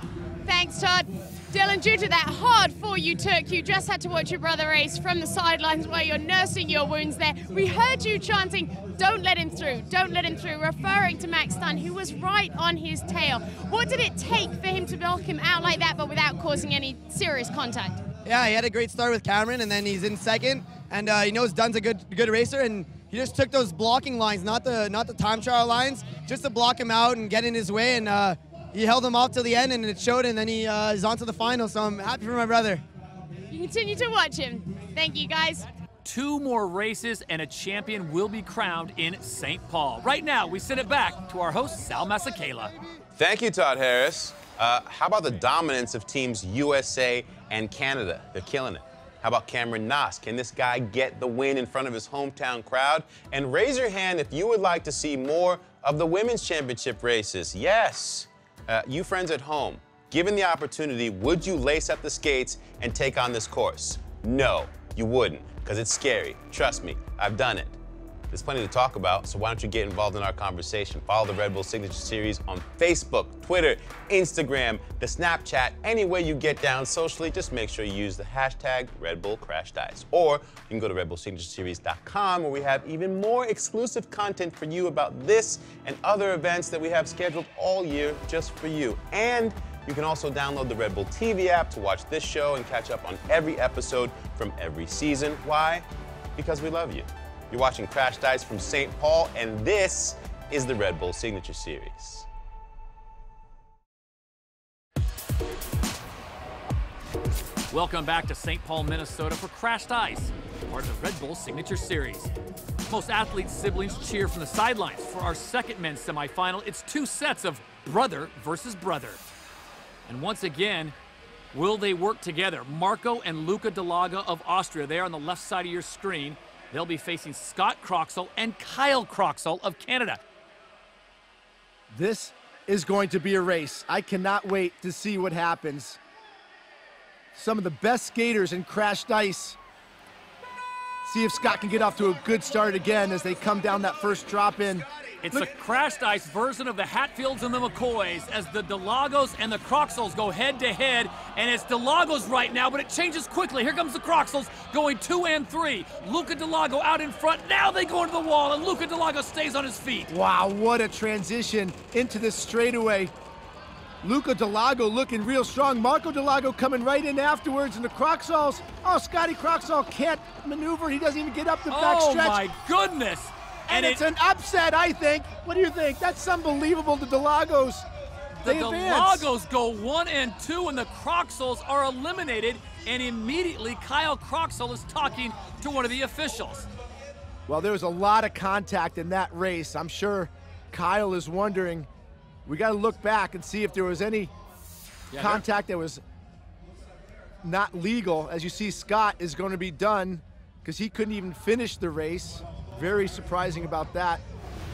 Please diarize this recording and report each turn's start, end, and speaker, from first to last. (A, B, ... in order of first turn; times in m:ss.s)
0:00.4-0:18.0 A
0:18.2-0:32.8 B
0:33.5-0:35.7 A
0:36.0-0:42.7 C
0:43.2-1:07.8 D
1:08.3-1:35.8 D
1:36.4-1:42.3 D
1:47.7-1:52.3 C
1:52.9-1:59.2 C
2:00.1-2:01.0 C
2:01.5-2:10.2 C
2:11.9-2:16.0 E
2:17.3-2:19.6 E
2:21.0-2:25.5 E
2:25.2-2:40.1 C
2:40.1-2:43.1 E
2:44.0-2:52.4 E
2:51.7-2:54.0 C
2:53.7-2:57.9 E
2:58.4-3:06.7 C
2:58.4-2:59.3 E
3:07.5-3:11.9 E
3:12.4-3:14.3 E
3:15.1-3:15.4 C
3:15.2-3:16.0 E
3:17.4-3:24.2 E